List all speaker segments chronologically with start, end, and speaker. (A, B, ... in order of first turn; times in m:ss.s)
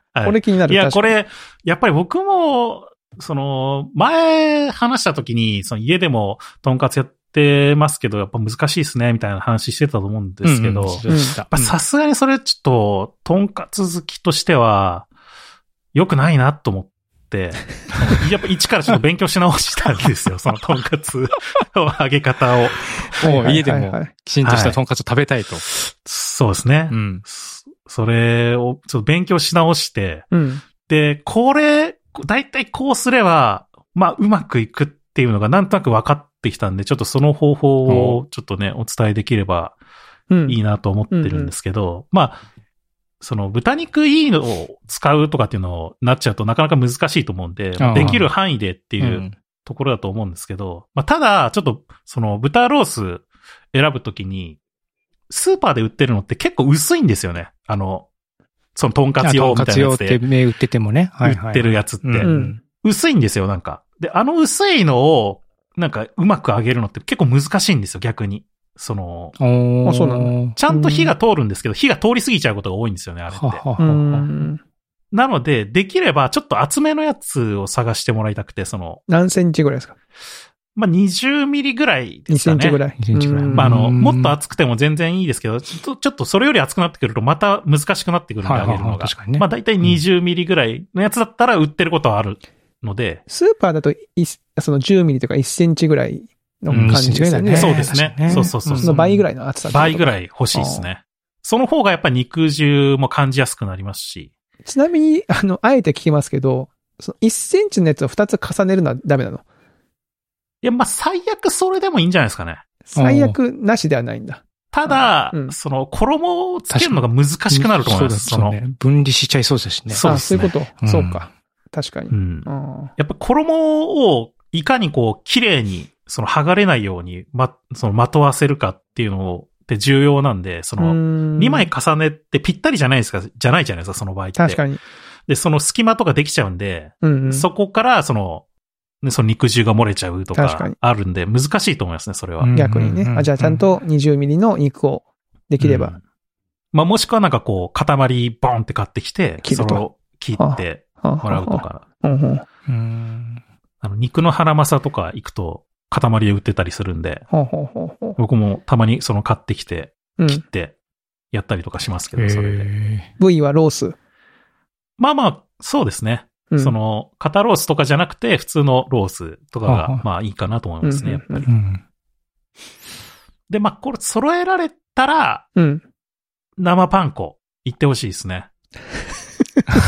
0:00.1-0:15.1 A
0:00.2-0:01.1 B
0:10.4-0:11.8 C
0:11.1-0:11.3 B
0:15.9-0:23.2 A
0:23.2-0:25.6 C
0:23.2-0:24.1 B
0:24.4-0:24.8 A
0:25.6-0:30.3 A
0:26.9-0:27.2 C
0:30.3-0:30.6 B
0:30.8-0:39.8 A
0:37.9-0:38.2 C
0:40.3-0:40.6 B
0:40.5-0:42.4 A
0:41.1-0:41.5 B
0:43.2-0:54.6 A
0:47.8-0:48.3 C
0:49.0-0:49.3 C
0:55.3-0:58.1 A
0:58.8-1:00.2 A
0:59.2-1:02.6 C
1:01.2-1:09.4 A
1:02.2-1:02.6 B
1:09.4-1:10.6 C
1:09.8-1:11.1 B
1:10.5-1:13.6 A
1:13.3-1:14.3 C
1:13.8-1:14.6 B
1:15.1-1:19.0 A
1:19.1-1:20.0 B
1:20.7-1:22.8 A
1:22.3-1:23.8 B
1:23.0-1:24.3 C
1:23.5-1:33.2 A
1:28.4-1:30.0 C
1:33.3-1:40.9 B
1:36.7-1:39.2 C
1:36.7-1:37.0 A
1:37.5-1:38.9 A
1:39.7-1:44.3 A
1:44.6-1:49.4 B
1:50.6-1:52.6 A
1:52.8-1:55.6 B
1:52.9-1:53.4 C
1:54.7-1:58.6 A
1:56.7-2:01.3 C
1:59.9-2:00.5 A
2:00.0-2:02.9 B
2:02.1-2:14.6 A
2:10.8-2:11.7 B
2:14.4-2:14.8 B
2:15.3-2:18.4 A
2:17.0-2:17.5 B
2:19.0-2:22.5 A
2:20.3-2:20.7 B
2:22.4-2:23.6 C
2:22.5-2:25.9 B
2:25.6-2:26.0 A
2:26.7-2:31.8 A
2:29.4-2:29.8 B
2:30.4-2:32.4 B
2:32.7-2:33.4 C
2:33.8-2:37.2 A
2:37.3-2:38.2 B
2:38.2-2:40.7 A
2:41.3-2:42.7 A
2:42.2-2:43.1 C
2:43.2-2:44.0 B
2:45.0-2:51.5 A
2:49.6-2:50.0 C
2:50.8-2:51.4 B
2:51.4-2:51.8 C
2:53.5-2:55.4 A
2:55.6-2:55.8 B
2:56.6-2:58.5 A